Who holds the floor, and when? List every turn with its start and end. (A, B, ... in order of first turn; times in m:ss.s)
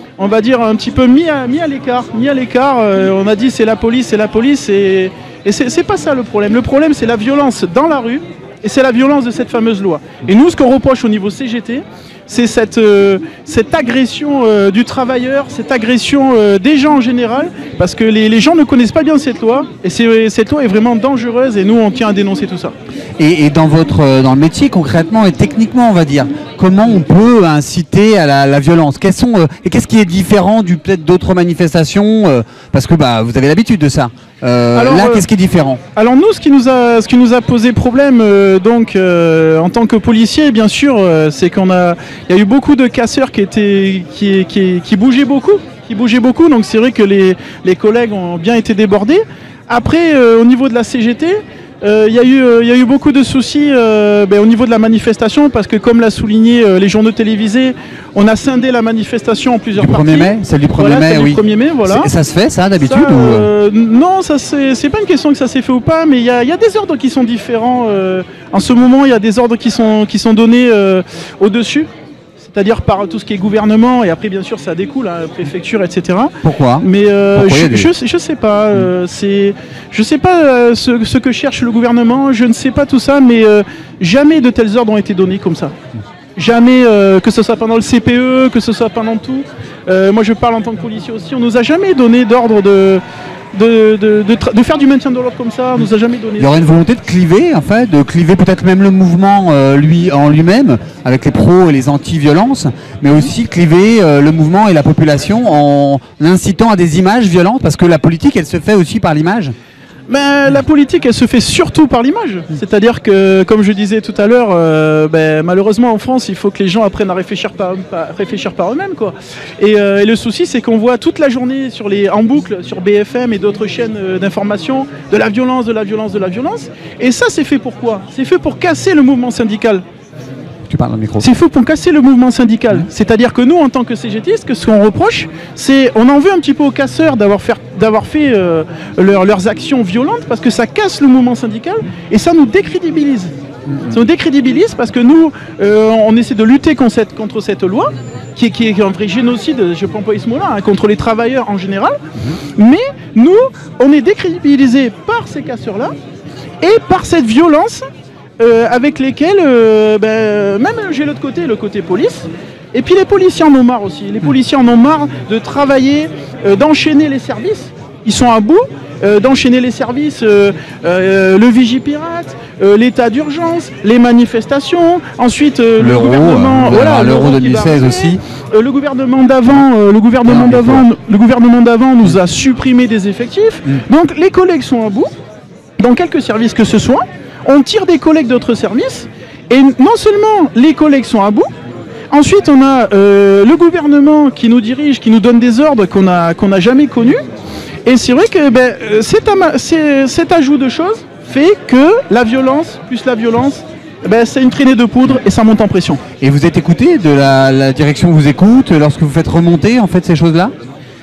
0:00.2-0:22.7 A
0:23.2-0:35.8 B
0:34.7-0:35.2 A
0:36.0-1:02.1 A
0:59.8-1:03.5 B
1:02.8-1:11.9 A
1:12.4-1:25.7 A
1:16.4-1:17.9 B
1:26.4-1:33.0 A
1:33.5-1:36.5 A
1:36.4-1:49.5 B
1:50.1-2:09.8 A
2:10.7-2:11.3 B
2:11.2-2:23.3 A
2:23.7-2:24.0 B
2:23.9-2:32.0 A
2:32.6-2:35.9 A
2:36.6-2:37.8 A
2:38.4-3:05.1 A
2:55.8-2:58.2 B
3:00.3-3:00.8 B
3:05.8-3:11.5 A
3:12.1-3:17.2 A
3:17.8-3:26.0 A
3:26.2-3:30.5 B